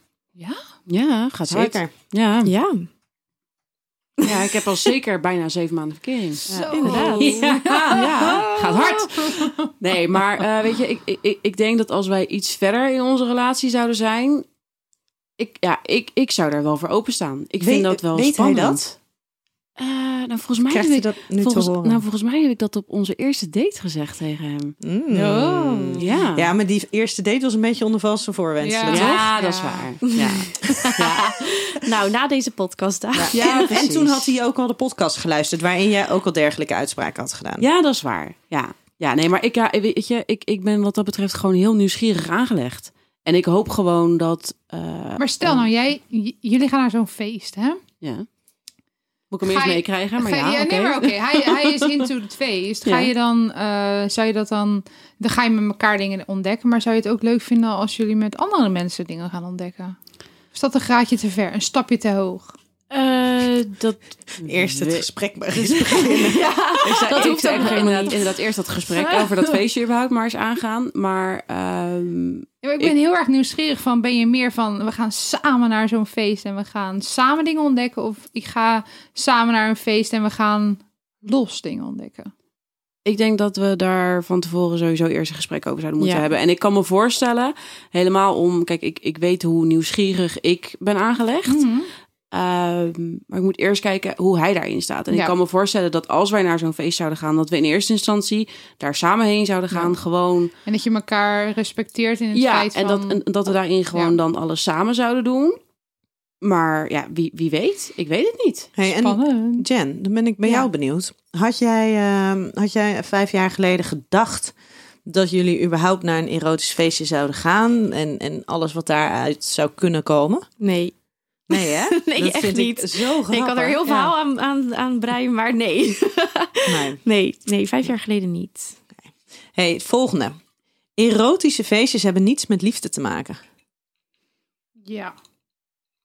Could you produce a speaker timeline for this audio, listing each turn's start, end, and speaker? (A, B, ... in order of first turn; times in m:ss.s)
0:00.9-0:02.5 A
0:01.5-0:01.9 B
0:02.4-0:02.8 C
0:04.2-0:14.4 A
0:06.5-0:09.7 D
0:06.5-0:07.2 B
0:06.7-0:08.3 C
0:15.4-0:19.0 A
0:17.6-0:18.8 B
0:19.8-0:24.7 A
0:20.7-0:22.0 B
0:24.8-0:29.3 B
0:25.1-0:26.0 C
0:26.0-0:26.5 A
0:28.6-0:29.9 D
0:28.8-0:31.4 A
0:30.1-0:33.7 C
0:33.1-0:37.7 B
0:33.3-0:34.2 A
0:37.6-0:45.7 A
0:45.2-0:47.8 D
0:48.0-0:48.3 A
0:49.3-0:52.1 A
0:49.4-1:00.0 D
0:52.8-0:53.1 A
1:00.5-1:02.5 D
1:02.9-1:13.0 A
1:04.4-1:06.4 B
1:06.2-1:08.3 C
1:12.6-1:22.3 D
1:23.0-1:31.6 A
1:26.0-1:26.3 C
1:31.5-1:31.9 D
1:32.3-1:40.5 A
1:40.6-1:43.2 D
1:42.3-1:45.6 A
1:46.4-1:48.7 A
1:48.8-1:54.5 B
1:48.9-1:49.6 D
1:55.0-2:00.4 B
2:00.6-2:00.9 C
2:01.5-2:04.1 B
2:01.5-2:08.8 C
2:06.6-2:07.0 B
2:09.0-2:10.4 B
2:11.0-2:13.4 B
2:14.8-2:15.1 D